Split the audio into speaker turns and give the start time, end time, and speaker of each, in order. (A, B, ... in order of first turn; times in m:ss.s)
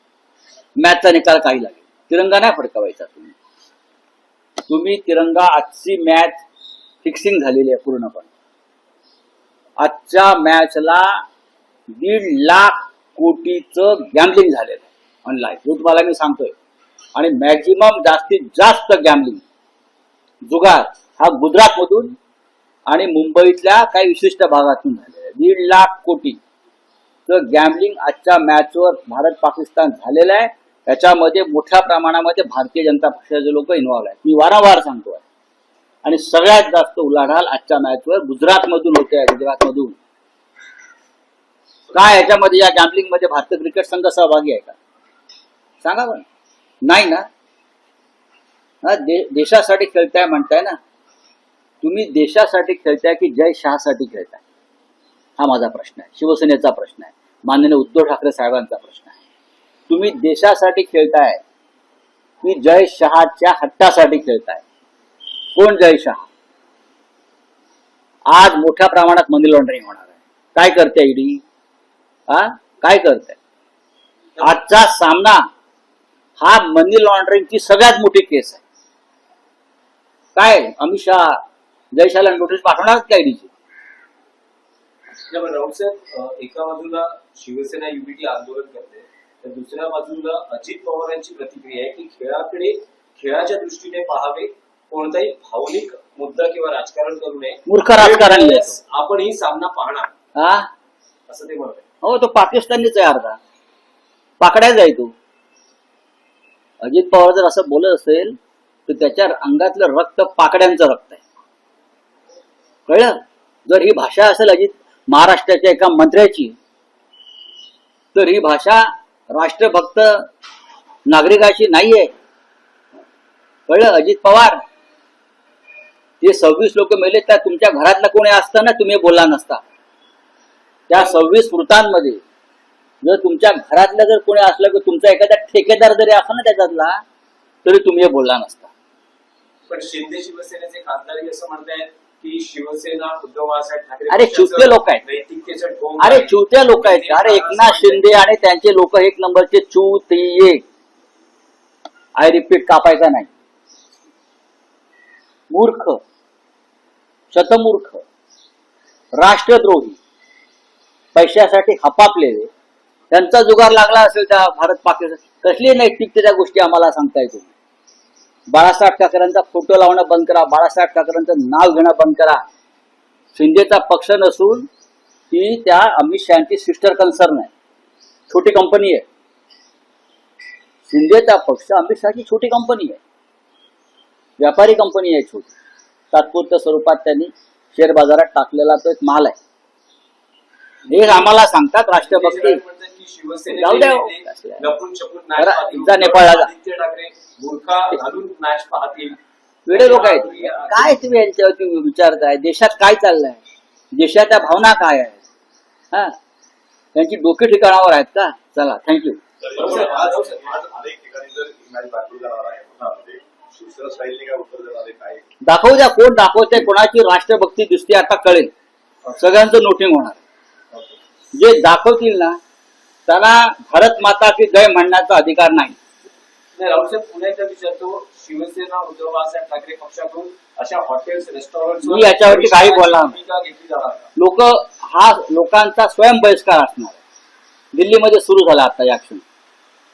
0:00.8-0:03.3 A
0:04.7-0:06.4 A
0:07.0-0:08.3 A
0:09.8-0:11.2 A
0:11.9-0:16.5 A
0:17.1-0:19.4 A
0:20.4-0:22.1 A
0:22.9-0:26.4 A
0:27.3-0:35.2 A
0:36.0-0:40.0 A
0:41.9-0:44.8 A
0:45.8-0:46.2 A
0:46.8-0:47.3 A
0:48.8-0:50.8 A
0:51.8-0:54.4 A
0:55.4-0:59.2 A
0:59.9-1:01.4 A
1:02.4-1:04.6 A
1:05.5-1:06.2 A
1:08.3-1:11.4 A
1:12.3-1:13.4 A
1:14.4-1:15.5 A
1:16.4-1:18.6 A
1:20.3-1:21.4 A
1:21.9-1:23.5 A
1:25.3-1:40.1 B
1:37.7-1:38.8 A
1:40.4-1:40.7 A
1:41.3-1:41.8 B
1:42.0-1:43.4 A
1:44.4-1:45.1 A
1:46.8-1:51.2 A
1:52.9-1:56.6 A
1:58.1-2:00.2 A
2:01.1-2:02.1 A
2:03.7-2:04.6 A
2:06.2-2:09.6 A
2:10.9-2:12.2 A
2:13.0-2:17.0 A
2:17.6-2:18.7 A
2:19.7-2:28.1 B
2:24.1-2:25.0 A
2:26.0-2:30.6 A
2:32.2-2:33.3 A
2:35.5-2:36.0 A
2:37.3-2:38.0 A
2:39.2-2:40.0 A
2:41.1-2:42.5 A
2:43.1-2:47.5 A
2:48.5-2:52.4 A
2:53.3-2:54.7 A
2:55.3-2:57.5 A
2:58.3-2:59.0 A
3:00.9-3:03.0 A
3:04.4-3:05.5 A
3:06.1-3:09.4 A
3:10.9-3:11.4 B
3:10.9-3:12.6 A
3:12.0-3:19.2 B
3:13.5-3:14.6 A
3:15.4-3:16.5 A
3:19.6-3:23.4 A
3:19.7-3:21.0 B
3:23.9-3:25.2 A
3:26.9-3:29.2 A
3:29.4-3:35.2 C
3:29.5-3:30.7 B
3:35.4-3:38.5 A
3:39.1-3:40.2 A
3:41.3-3:42.4 A
3:43.1-3:45.8 A
3:46.5-3:54.1 B
3:51.8-3:53.2 A
3:54.2-3:57.0 A
3:57.7-3:59.2 A